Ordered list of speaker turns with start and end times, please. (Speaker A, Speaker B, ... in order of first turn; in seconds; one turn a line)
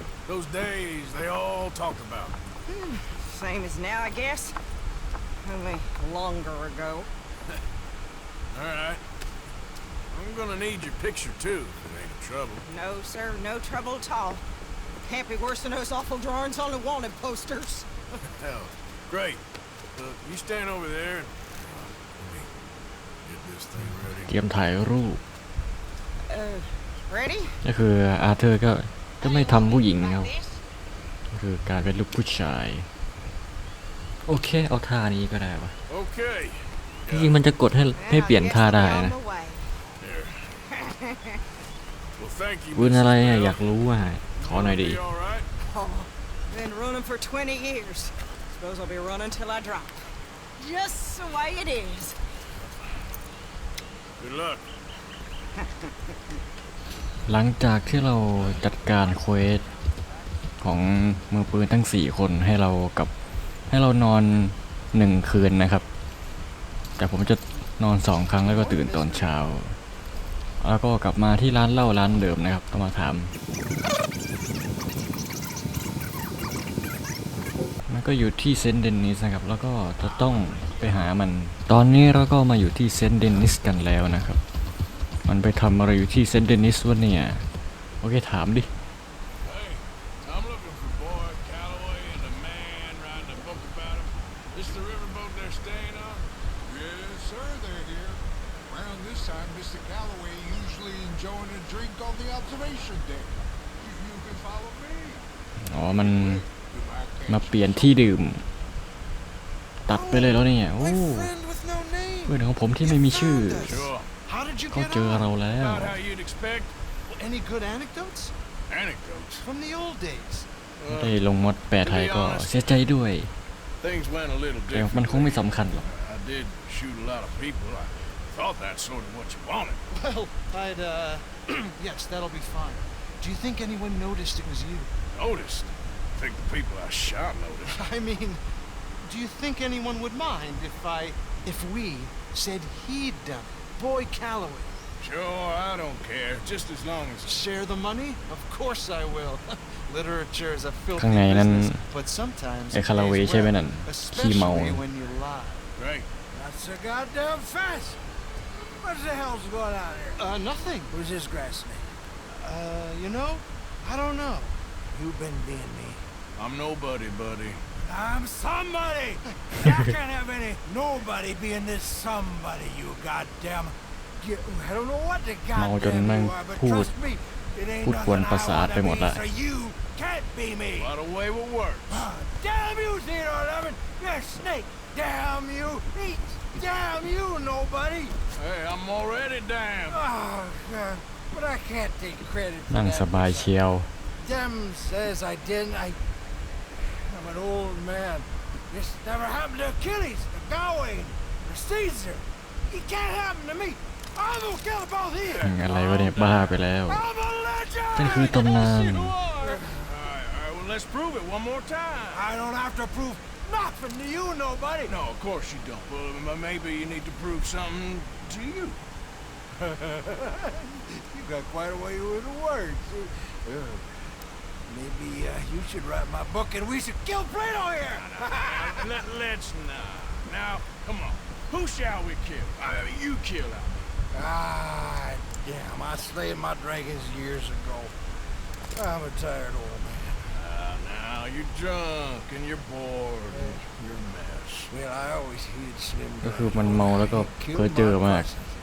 Speaker A: 0.2-2.4
Speaker B: 2.7-4.5
Speaker B: 5.4-7.1
Speaker A: 8.5-9.0
Speaker A: 10.1-12.6
Speaker B: 12.7-14.4
Speaker B: 15.0-17.9
Speaker A: 18.4-19.4
Speaker A: 19.9-22.5
Speaker A: 23.2-24.3
Speaker C: 24.3-25.2
Speaker B: 26.3-27.6
Speaker C: 27.6-30.3
Speaker B: 29.2-30.6
Speaker C: 31.3-32.9
Speaker C: 34.2-35.8
Speaker A: 35.9-37.3
Speaker C: 37.1-39.1
Speaker B: 38.0-39.7
Speaker A: 40.0-40.5
Speaker B: 40.7-41.4
Speaker A: 42.2-43.6
Speaker C: 42.7-45.0
Speaker A: 44.3-45.5
Speaker B: 45.6-52.2
Speaker A: 54.2-54.6
Speaker B: 55.6-55.9
Speaker C: 57.2-59.6
Speaker C: 60.6-63.1
Speaker C: 63.7-65.8
Speaker C: 67.0-69.8
Speaker D: 68.4-69.3
Speaker C: 70.6-73.3
Speaker C: 77.9-84.4
Speaker A: 80.0-81.1
Speaker C: 85.2-87.5
Speaker C: 88.0-88.7
Speaker A: 89.4-96.2
Speaker E: 96.7-105.2
Speaker C: 105.6-106.4
Speaker E: 106.0-108.1
Speaker C: 107.3-108.4
Speaker C: 109.8-111.3
Speaker D: 109.9-115.2
Speaker C: 112.3-113.9
Speaker A: 113.6-114.1
Speaker C: 114.7-116.0
Speaker A: 115.5-116.7
Speaker D: 117.1-118.3
Speaker A: 118.7-119.5
Speaker D: 119.4-120.5
Speaker A: 120.8-121.2
Speaker C: 120.9-123.3
Speaker A: 121.8-122.8
Speaker A: 123.8-129.8
Speaker C: 124.7-125.9
Speaker D: 129.9-134.9
Speaker A: 135.1-137.8
Speaker D: 137.7-138.4
Speaker D: 139.0-144.7
Speaker A: 145.0-147.3
Speaker D: 147.2-155.6
Speaker C: 150.9-151.8
Speaker C: 152.7-154.8
Speaker A: 155.8-156.1
Speaker F: 156.3-158.0
Speaker F: 158.8-160.2
Speaker D: 160.2-160.9
Speaker F: 160.9-161.9
Speaker D: 162.3-164.6
Speaker F: 164.9-166.0
Speaker A: 166.4-167.6
Speaker F: 167.8-180.9
Speaker C: 175.5-176.9
Speaker C: 177.8-179.2
Speaker A: 180.8-182.1
Speaker F: 181.9-188.1
Speaker A: 188.3-190.0
Speaker F: 189.9-193.5
Speaker C: 192.7-193.9
Speaker F: 194.2-196.0
Speaker F: 196.8-205.5
Speaker A: 205.2-206.6
Speaker C: 205.4-207.1
Speaker F: 206.9-209.8
Speaker C: 207.9-209.2
Speaker A: 207.9-212.3
Speaker F: 212.1-215.0
Speaker A: 214.8-218.8
Speaker F: 219.6-223.9
Speaker F: 224.7-228.9
Speaker A: 227.9-233.9
Speaker F: 234.1-237.9
Speaker F: 238.7-240.2
Speaker A: 240.3-244.7
Speaker F: 243.3-243.6
Speaker F: 244.7-248.5
Speaker C: 246.2-248.3
Speaker D: 247.1-247.7